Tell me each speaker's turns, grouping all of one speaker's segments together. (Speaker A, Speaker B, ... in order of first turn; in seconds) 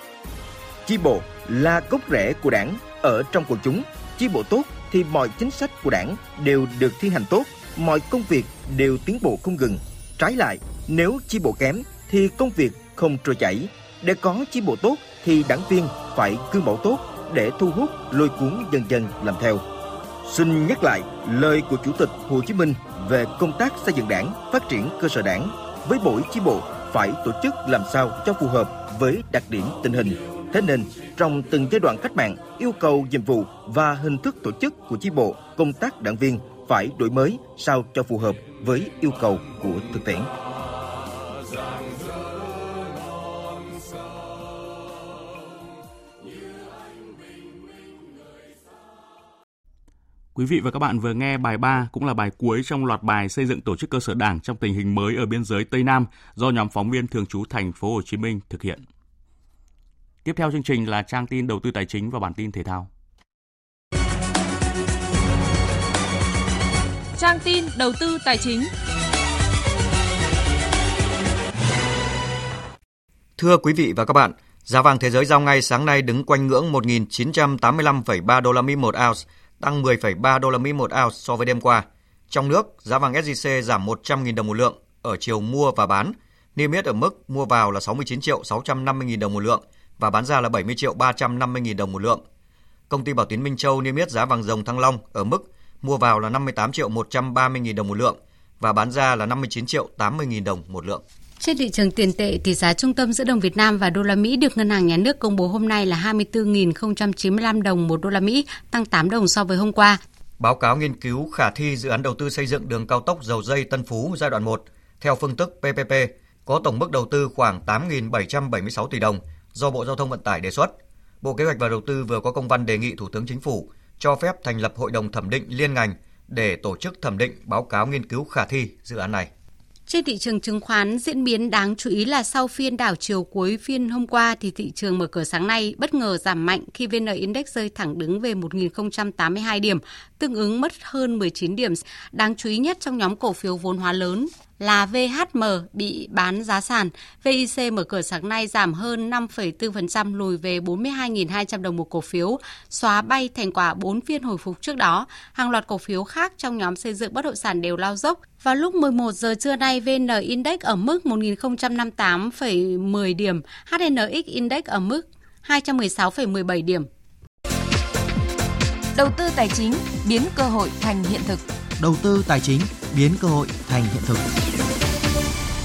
Speaker A: 0.9-19.6, 20.2-40.3
Speaker B: 50.4-58.8, 60.2-62.9
Speaker C: 67.2-68.7, 168.9-171.4
Speaker D: 73.4-92.2, 92.9-101.0, 110.4-129.3, 171.8-174.2
Speaker E: 101.4-110.0, 129.9-166.9